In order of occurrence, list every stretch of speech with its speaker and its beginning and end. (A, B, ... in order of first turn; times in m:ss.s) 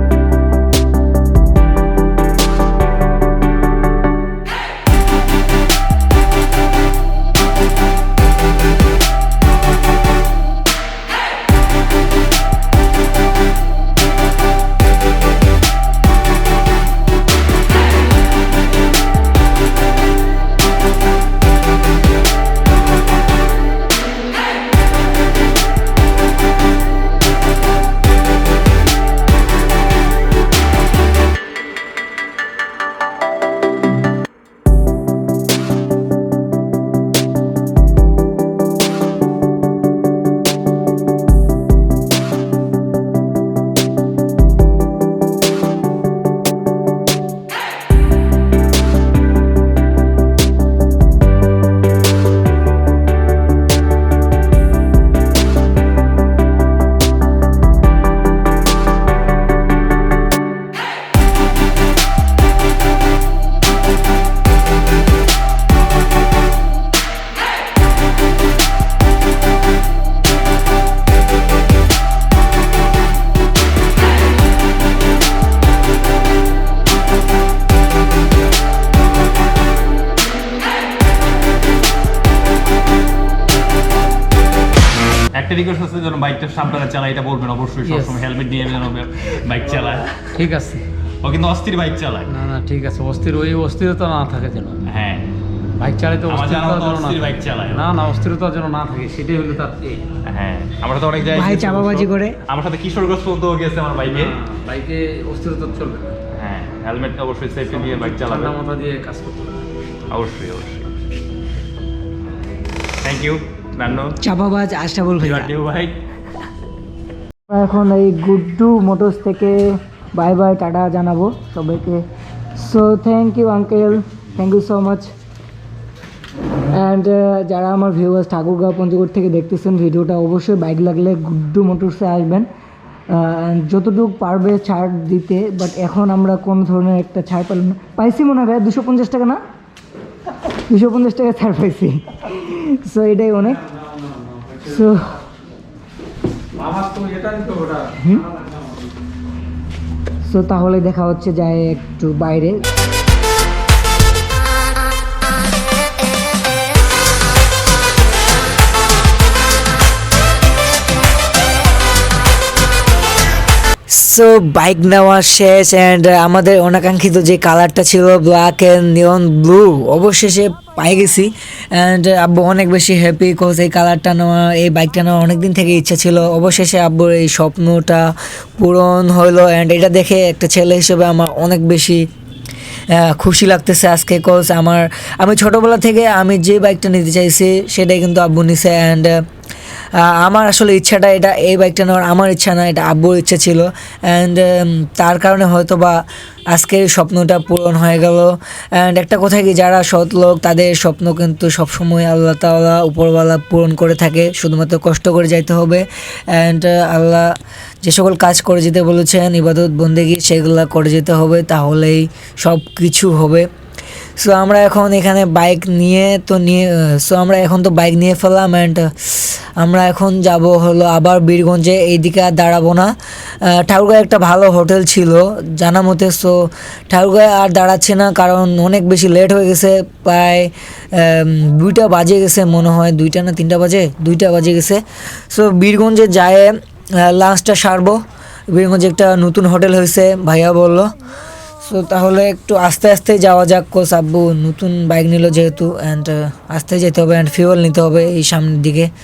1:25.3-1:30.4 A
1:27.8-1:28.2 B
1:30.3-1:30.8 B
1:31.2-1:32.3 A
1:32.3-1:34.8 B
1:34.8-1:35.3 A
1:35.8-1:40.1 B
1:36.2-1:37.9 A
1:40.2-1:44.3 A
1:41.3-1:42.4 C
1:44.1-1:46.2 B
1:46.3-1:48.6 A
1:47.7-1:49.6 B
1:50.1-1:50.9 A
1:53.0-1:54.2 A
1:54.2-1:55.5 C
1:55.2-1:56.0 A
1:57.5-2:02.0 C
2:02.6-2:05.1 C
2:06.7-2:12.5 C
2:13.1-2:19.4 C
2:20.7-2:23.6 C
2:23.6-2:24.8 B
2:24.6-2:25.1 C
2:26.6-2:28.9 B
2:28.0-2:28.2 C
2:30.3-2:32.6 C
2:43.9-3:02.0 C
3:02.9-3:09.2 C
3:10.0-3:16.0 C
3:16.5-3:33.5 C
3:34.2-3:46.4 C
3:46.9-4:00.9 C
4:01.6-4:08.9 C